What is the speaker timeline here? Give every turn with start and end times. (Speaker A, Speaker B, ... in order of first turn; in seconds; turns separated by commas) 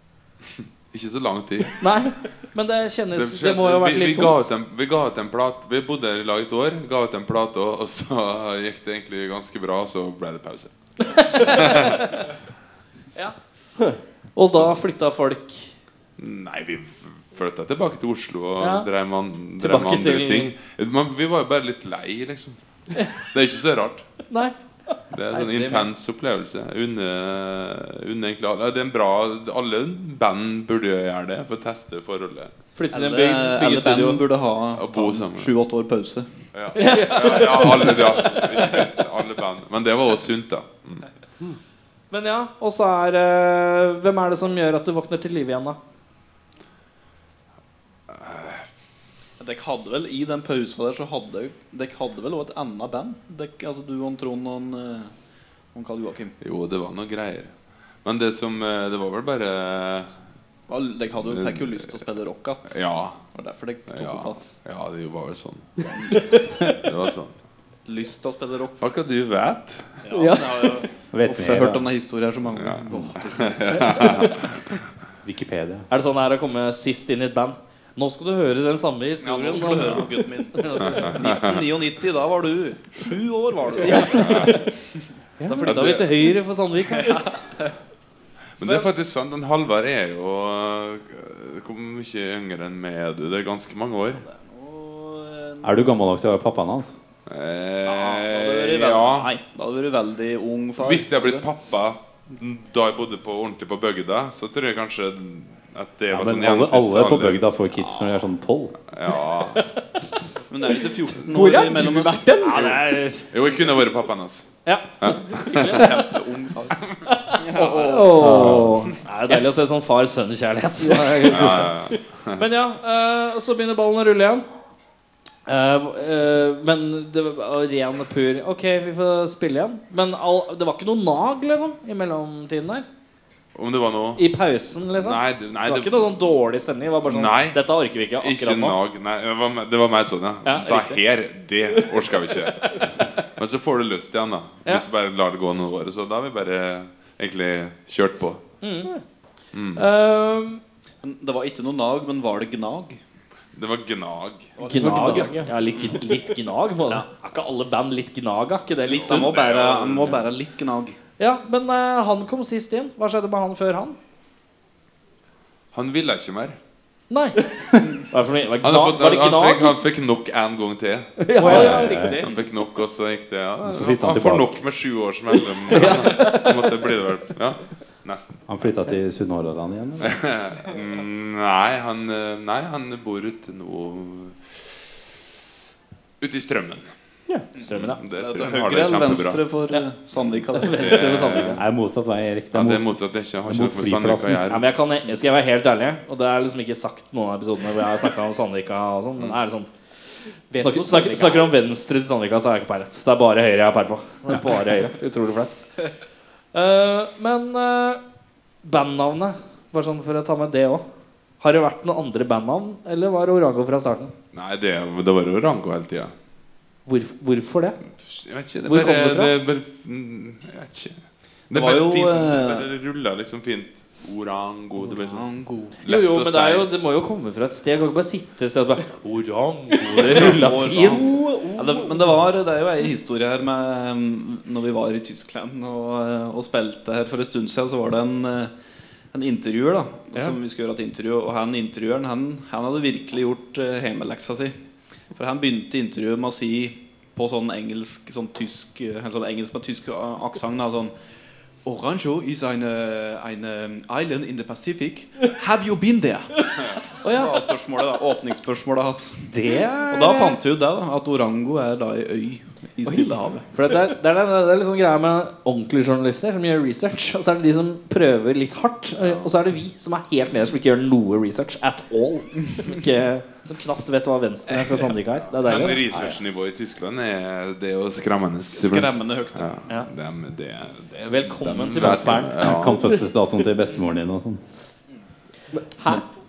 Speaker A: 0.9-1.9, Speaker B: 1.8-4.5, Speaker A: 3.1-12.1, Speaker B: 11.1-12.2, Speaker B: 14.3-15.7, Speaker A: 16.2-24.1, Speaker B: 18.6-18.9, Speaker B: 19.6-20.5, Speaker B: 24.3-24.5, Speaker A: 25.1-32.5, Speaker B: 25.3-25.9, Speaker B: 32.8-34.2, Speaker C: 32.9-36.3, Speaker A: 34.7-35.5, Speaker A: 36.5-41.1, Speaker B: 36.7-38.4, Speaker D: 36.8-38.1, Speaker B: 42.1-45.8, Speaker A: 48.1-48.6, Speaker C: 49.4-55.1, Speaker C: 55.7-56.3, Speaker A: 56.4-60.1, Speaker C: 60.7-62.7, Speaker A: 61.2-61.8, Speaker A: 62.7-63.2, Speaker C: 63.3-64.5, Speaker A: 63.9-67.3, Speaker C: 65.8-66.3, Speaker C: 67.8-68.8, Speaker A: 68.8-70.0, Speaker C: 70.0-74.3, Speaker D: 70.1-70.8, Speaker E: 71.1-71.9, Speaker A: 72.5-74.8, Speaker E: 75.2-75.9, Speaker B: 75.9-81.2, Speaker C: 79.2-84.5, Speaker A: 80.8-81.7, Speaker D: 83.8-84.6, Speaker B: 83.9-84.4, Speaker A: 84.1-84.6, Speaker D: 85.4-85.7, Speaker B: 85.5-87.3, Speaker A: 85.6-86.2, Speaker C: 87.0-87.7, Speaker A: 88.6-94.2, Speaker C: 94.2-95.9, Speaker E: 95.6-96.9, Speaker A: 97.3-99.3, Speaker C: 97.8-101.5, Speaker A: 100.8-107.4, Speaker E: 106.1-108.8, Speaker A: 108.9-109.7, Speaker C: 110.5-112.8, Speaker D: 111.2-112.7, Speaker B: 112.4-113.3, Speaker A: 113.3-114.5, Speaker B: 114.6-116.0, Speaker A: 115.0-115.9, Speaker C: 115.5-116.8, Speaker B: 117.2-124.4, Speaker C: 117.3-119.0, Speaker E: 118.1-118.9, Speaker D: 120.8-121.7, Speaker A: 121.3-122.4, Speaker B: 125.5-132.8, Speaker A: 133.5-134.2, Speaker B: 134.2-138.8, Speaker A: 134.9-136.1, Speaker A: 137.1-137.6, Speaker A: 138.2-148.4, Speaker B: 140.4-141.0, Speaker B: 148.6-148.9, Speaker A: 149.5-149.8, Speaker B: 149.7-150.6, Speaker C: 151.0-153.0, Speaker A: 153.5-154.5, Speaker C: 154.6-155.4, Speaker B: 154.6-159.3, Speaker D: 154.7-155.5, Speaker C: 158.8-161.0, Speaker A: 159.0-160.3, Speaker B: 161.2-164.0, Speaker A: 165.7-166.6, Speaker B: 167.1-169.8, Speaker A: 168.6-178.4, Speaker B: 171.2-172.3, Speaker D: 171.3-172.1, Speaker E: 171.4-172.2, Speaker E: 173.6-174.6, Speaker B: 175.7-176.5, Speaker D: 175.8-176.5, Speaker E: 178.5-180.2, Speaker A: 180.0-184.7, Speaker A: 186.2-186.8, Speaker C: 187.6-191.1, Speaker A: 187.7-189.4, Speaker B: 187.7-188.0, Speaker B: 190.5-191.6, Speaker A: 190.7-191.6, Speaker E: 191.6-192.9, Speaker A: 192.5-194.7, Speaker E: 193.4-194.4, Speaker B: 194.5-199.7, Speaker D: 200.5-201.5, Speaker B: 200.6-205.8, Speaker B: 206.5-208.0, Speaker B: 208.6-210.8, Speaker B: 211.4-214.1, Speaker A: 214.3-216.1, Speaker B: 216.9-217.8, Speaker A: 217.9-221.0, Speaker B: 218.7-219.3, Speaker A: 221.5-225.3, Speaker C: 221.5-222.7, Speaker C: 224.8-225.8, Speaker A: 225.8-226.7, Speaker B: 225.8-231.5, Speaker C: 229.9-238.5, Speaker D: 230.1-232.1, Speaker C: 239.1-244.6, Speaker C: 245.1-250.9, Speaker C: 251.6-259.3, Speaker B: 257.0-257.3, Speaker B: 259.3-260.4, Speaker C: 259.9-263.5, Speaker D: 262.8-263.1, Speaker B: 263.5-275.9, Speaker A: 269.0-269.3, Speaker A: 275.4-282.8, Speaker E: 275.9-276.2, Speaker C: 278.5-279.5, Speaker B: 281.1-282.6, Speaker E: 281.9-284.4, Speaker D: 285.5-286.1